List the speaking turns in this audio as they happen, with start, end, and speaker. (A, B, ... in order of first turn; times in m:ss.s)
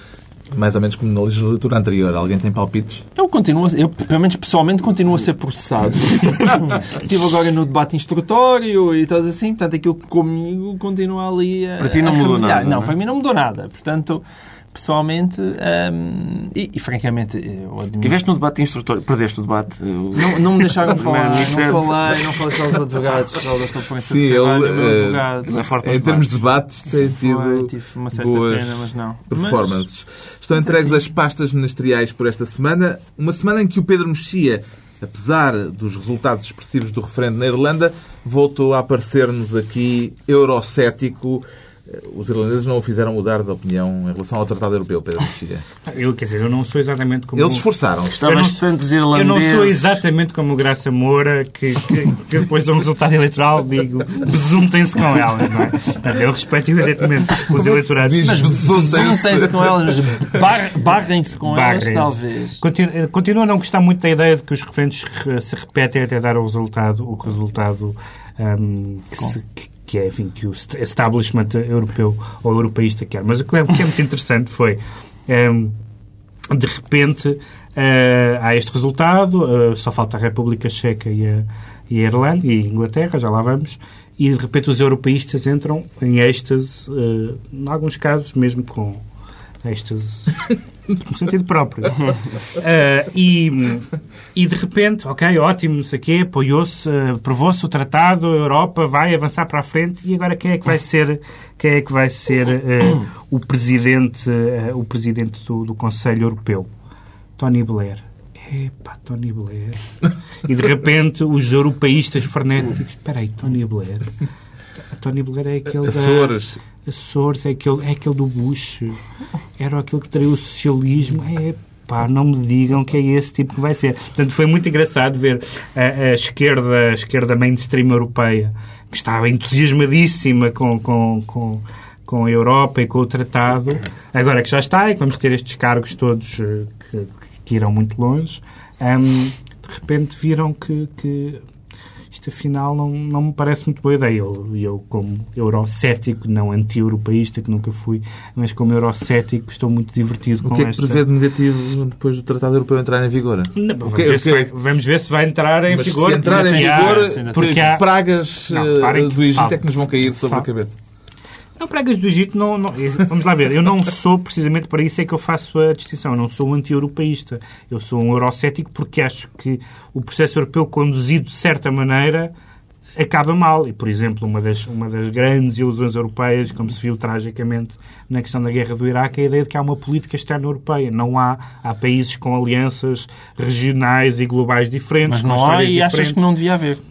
0:00.5-0:03.0 A
0:03.2-0:18.2 B
0:11.8-0:13.0 C
0:18.0-0:22.2 C
0:20.1-0:25.6 B
0:24.1-0:45.6 A
0:25.5-0:26.3 C
0:26.9-0:29.9 B
0:30.6-0:31.0 B
0:45.9-0:47.7 D
0:47.4-0:48.3 A
0:48.0-0:50.0 C
0:48.2-0:58.6 D
0:57.5-1:00.4 A
0:58.2-1:02.6 B
1:01.4-1:15.8 D
1:16.5-1:29.0 D
1:29.6-1:32.0 D
1:32.5-1:46.7 D
1:47.4-1:49.9 D
1:50.4-1:54.1 D
1:55.0-1:59.0 D
1:55.8-1:56.6 A
1:59.6-2:21.4 D
2:22.1-2:31.0 D
2:30.4-2:34.5 A
2:33.6-2:37.9 D
2:35.7-2:40.8 A
2:36.2-2:37.8 B
2:38.5-2:40.5 D
2:41.6-2:52.3 D
2:53.0-3:06.2 D
3:05.1-3:06.8 B